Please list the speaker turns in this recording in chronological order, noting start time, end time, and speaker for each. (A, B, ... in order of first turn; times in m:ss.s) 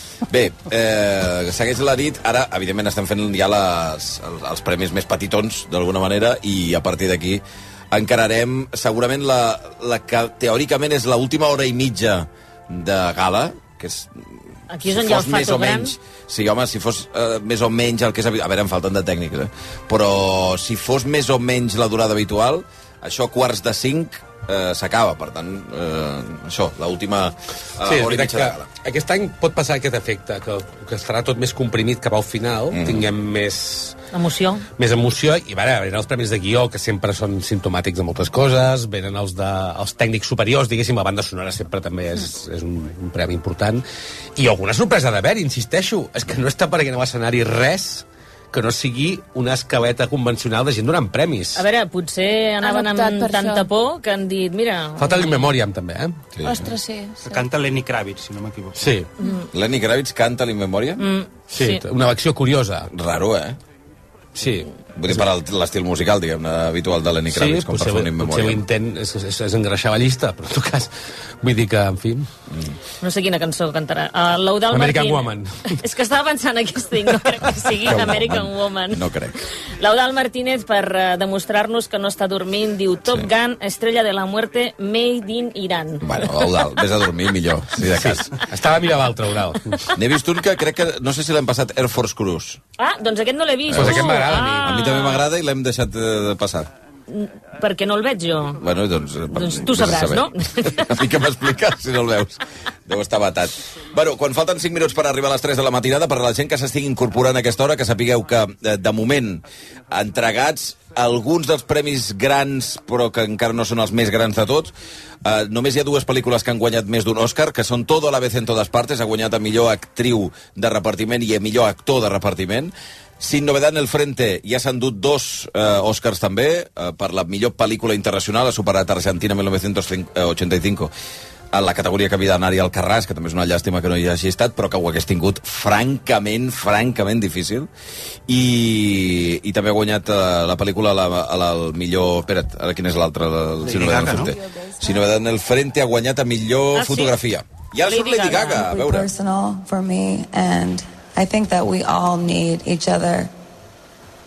0:00.3-0:28.7 A
0:14.7-0:16.0 B
0:27.8-0:34.0 C
0:32.7-0:33.1 A
0:34.1-0:34.7 B
0:34.8-0:43.8 C
0:44.4-0:51.6 C
0:51.6-0:55.4 B
0:52.6-0:53.7 D
0:55.0-0:56.2 C
0:56.4-0:56.7 A
0:56.4-0:57.5 D
0:57.2-0:59.0 E
0:58.8-0:59.1 C
0:59.2-0:59.5 B
0:59.5-1:01.0 A
1:01.0-1:01.8 B
1:01.5-1:02.9 C
1:02.9-1:03.6 A
1:04.4-1:04.7 C
1:05.0-1:08.6 A
1:07.3-1:12.3 C
1:13.0-1:19.1 B
1:14.7-1:15.8 C
1:17.8-1:19.4 A
1:19.8-1:26.3 B
1:26.0-1:28.4 A
1:28.0-1:29.9 C
1:29.9-1:32.6 A
1:32.8-1:35.3 B
1:33.7-1:34.1 A
1:33.7-1:34.8 C
1:34.6-1:36.7 A
1:37.1-1:38.6 B
1:38.6-1:54.7 A
1:39.3-1:40.9 B
1:55.2-2:10.9 A
2:11.5-2:17.7 A
2:18.3-2:29.1 A
2:23.6-2:24.4 E
2:23.9-2:25.0 D
2:26.8-2:27.2 B
2:27.8-2:28.7 B
2:28.6-2:33.3 F